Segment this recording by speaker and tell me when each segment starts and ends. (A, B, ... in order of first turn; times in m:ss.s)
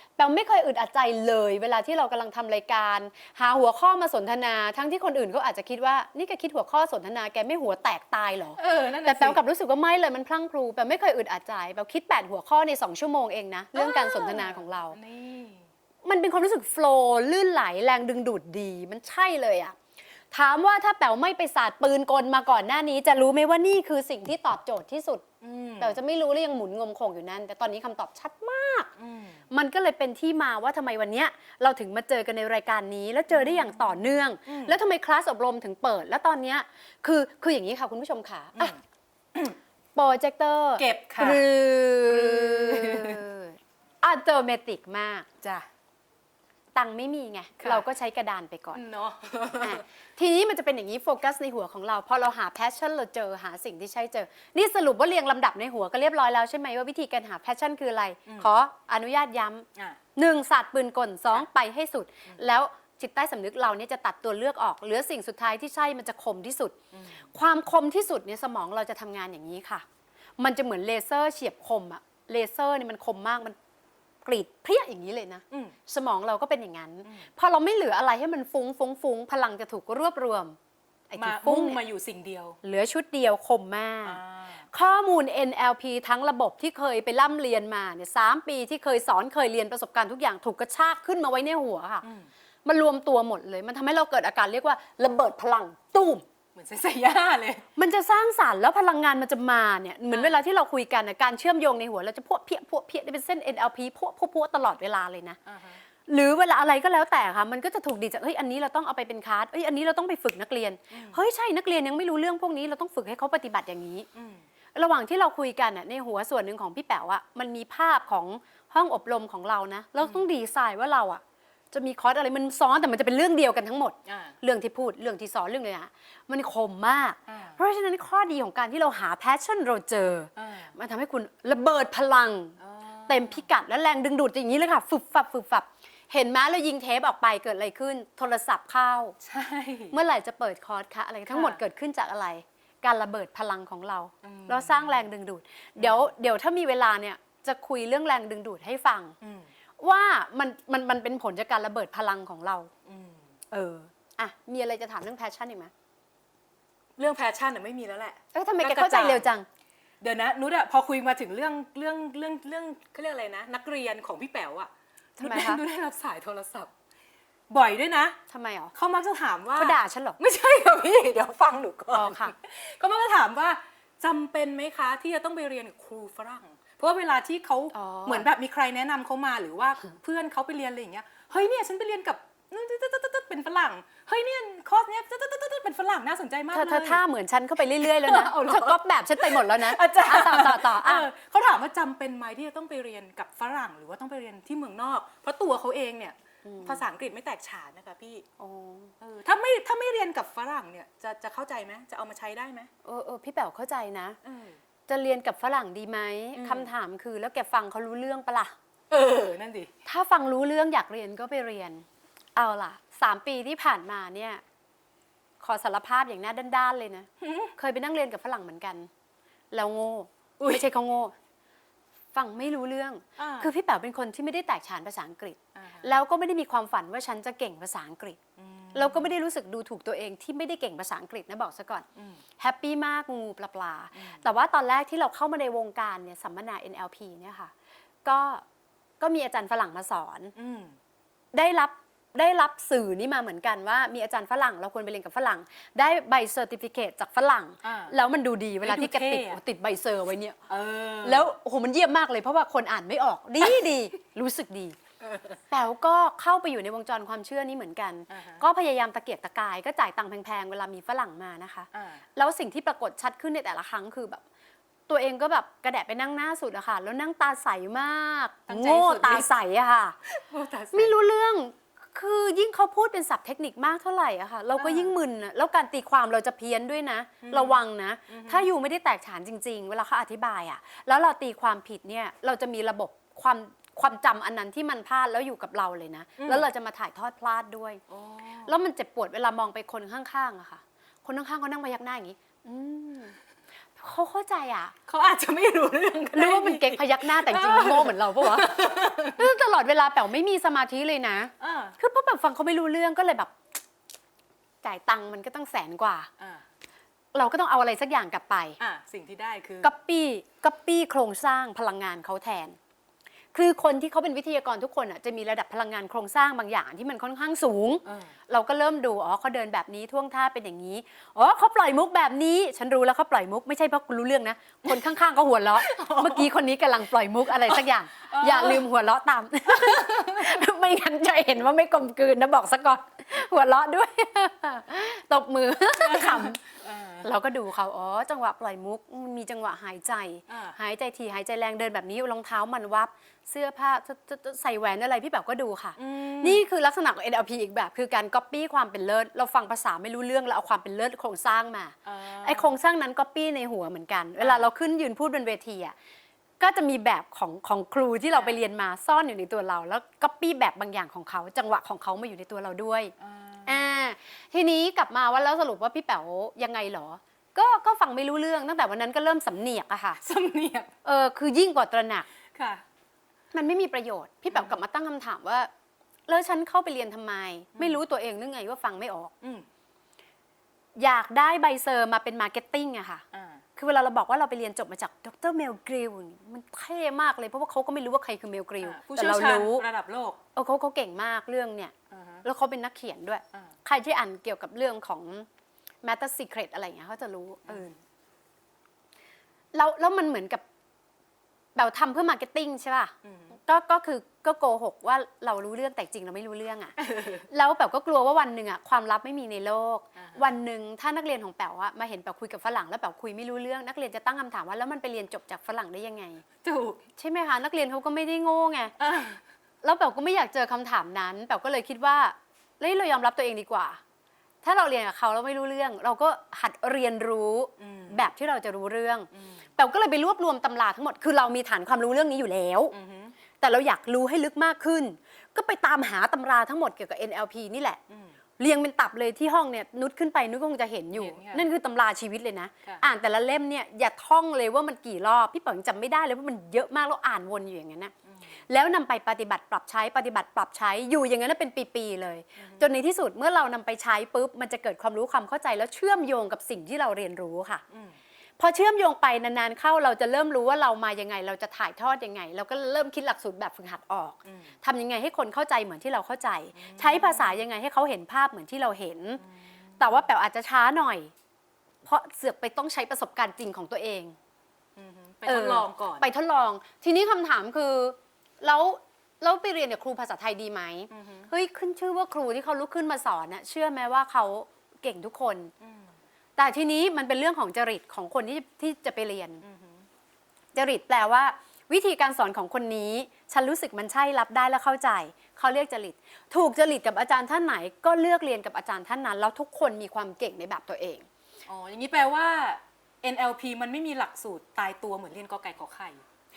0:00.2-0:15.0 A
0:08.6-0:09.4 B
0:13.7-0:15.7 B
0:16.0-0:19.8 A
0:20.3-0:25.3 A
0:25.4-0:26.0 B
0:25.8-0:28.9 A
0:29.0-0:29.4 B
0:29.5-0:38.7 A
0:33.3-0:34.8 B
0:40.0-0:45.3 A
0:40.8-0:41.4 B
0:42.1-0:43.2 B
0:46.8-0:48.8 A
0:47.6-0:47.8 B
0:48.7-0:49.8 B
0:49.6-1:06.8 A
1:06.9-1:07.3 B
1:07.3-1:09.8 A
1:10.4-1:13.6 A
1:14.2-1:20.6 A
1:21.1-1:21.8 A
1:21.2-1:22.6 B
1:22.6-1:24.2 A
1:24.0-1:24.7 B
1:24.7-1:32.0 A
1:32.0-1:32.3 B
1:32.6-1:36.2 A
1:36.6-1:37.6 B
1:37.8-1:45.4 A
1:40.1-1:40.4 B
1:45.5-1:45.8 B
1:46.1-1:54.1 A
1:50.9-1:51.2 B
1:54.2-1:54.5 B
1:54.8-2:01.2 A
2:00.0-2:00.3 B
2:01.7-2:19.2 A
2:04.1-2:04.4 B
2:07.3-2:07.6 B
2:10.4-2:10.7 B
2:12.6-2:13.5 B
2:19.2-2:20.0 B
2:19.9-2:29.2 A
2:21.3-2:21.6 B
2:24.2-2:25.0 B
2:25.8-2:26.1 B
2:29.2-2:29.5 B
2:29.8-2:32.7 A
2:32.9-2:33.3 B
2:33.5-2:35.7 A
2:37.0-2:39.3 B
2:38.3-2:39.5 A
2:40.0-2:46.7 B
2:45.2-2:45.6 A
2:47.5-2:48.2 B
2:48.3-2:48.7 A
2:48.7-3:07.0 B
2:49.6-2:50.2 A
2:51.9-2:52.3 A
2:57.7-2:58.3 A
3:06.5-3:11.1 A
3:07.8-3:18.3 B
3:16.4-3:16.8 A
3:18.4-3:18.9 A
3:19.0-3:22.7 B
3:22.8-3:24.2 A
3:24.2-3:24.6 B
3:24.9-3:28.5 A
3:26.4-3:26.7 B
3:28.9-3:29.7 B
3:29.9-3:34.4 A
3:35.4-3:38.9 A
3:37.2-3:37.5 B
3:39.5-3:41.1 A
3:40.4-3:40.7 B
3:42.1-3:48.2 A
3:43.2-3:43.5 B
3:45.6-3:45.9 B
3:48.4-3:49.1 B
3:48.7-3:51.9 A
3:52.0-3:52.2 B
3:52.4-3:57.5 A
3:54.0-3:54.2 B
3:58.0-3:58.4 A
3:59.0-4:00.3 A
4:00.4-4:00.8 B
4:01.3-4:10.4 A
4:07.6-4:07.9 B
4:08.6-4:09.4 B
4:10.5-4:11.3 B
4:11.0-4:14.8 A
4:15.0-4:15.4 B
4:15.5-4:24.2 A
4:18.1-4:18.4 B
4:21.7-4:22.0 B
4:24.9-4:30.0 A
4:28.5-4:29.3 B
4:30.1-4:31.0 B
4:30.7-4:47.8 A
4:34.6-4:34.9 B
4:37.2-4:38.5 B
4:46.2-4:46.5 B
4:47.9-4:48.5 B
4:48.5-4:53.2 A
4:53.8-4:54.8 A
4:54.9-4:59.3 B
4:56.1-5:03.3 A
5:01.4-5:01.8 B
5:04.6-5:06.1 A
5:07.1-5:08.6 A
5:08.6-5:09.7 B
5:09.6-5:12.6 A
5:13.3-5:36.4 A
5:17.8-5:18.1 B
5:25.6-5:26.3 B
5:27.5-5:28.6 B
5:29.5-5:30.4 B
5:35.8-5:37.1 B
5:37.0-5:55.7 A
5:40.3-5:40.6 B
5:45.8-5:46.4 B
5:51.8-5:52.5 B
5:54.2-5:54.5 B
5:56.4-6:02.9 A
6:03.0-6:03.7 B
6:03.5-6:10.0 A
6:10.0-6:10.7 B
6:10.8-6:12.1 A
6:12.3-6:12.6 B
6:13.3-6:15.5 A
6:16.1-6:19.1 A
6:17.6-6:17.8 B
6:19.2-6:19.5 B
6:20.8-6:23.0 A
6:23.1-6:23.4 B
6:23.6-6:29.6 A
6:28.6-6:30.2 B
6:30.4-6:31.7 A
6:31.9-6:32.2 B
6:32.2-6:35.3 A
6:35.8-6:37.7 A
6:37.5-6:37.8 B
6:39.5-6:40.4 A
6:41.6-6:42.9 A
6:43.0-6:43.4 B
6:43.5-6:46.8 A
6:46.8-6:47.3 B
6:47.3-6:56.2 A
6:50.0-6:50.2 B
6:56.4-6:56.8 B
6:57.0-6:58.7 A
6:58.8-6:59.2 B
6:59.6-7:03.8 A
7:04.4-7:12.8 A
7:07.6-7:08.0 B
7:09.1-7:09.4 B
7:12.7-7:13.2 B
7:13.4-7:17.8 A
7:17.9-7:18.2 B
7:18.4-7:27.9 A
7:20.9-7:21.5 B
7:28.5-7:37.6 A
7:32.4-7:32.7 B
7:37.7-7:38.0 B
7:38.4-7:49.2 A
7:44.3-7:44.5 B
7:46.6-7:47.4 B
7:49.2-7:50.0 B
7:49.8-7:51.1 A
7:51.8-7:54.2 A
7:54.8-7:56.1 B
7:55.3-8:05.5 A
8:00.9-8:01.3 B
8:05.6-8:05.9 B
8:06.4-8:09.4 A
8:09.4-8:09.8 B
8:10.5-8:21.1 A
8:21.5-8:26.0 B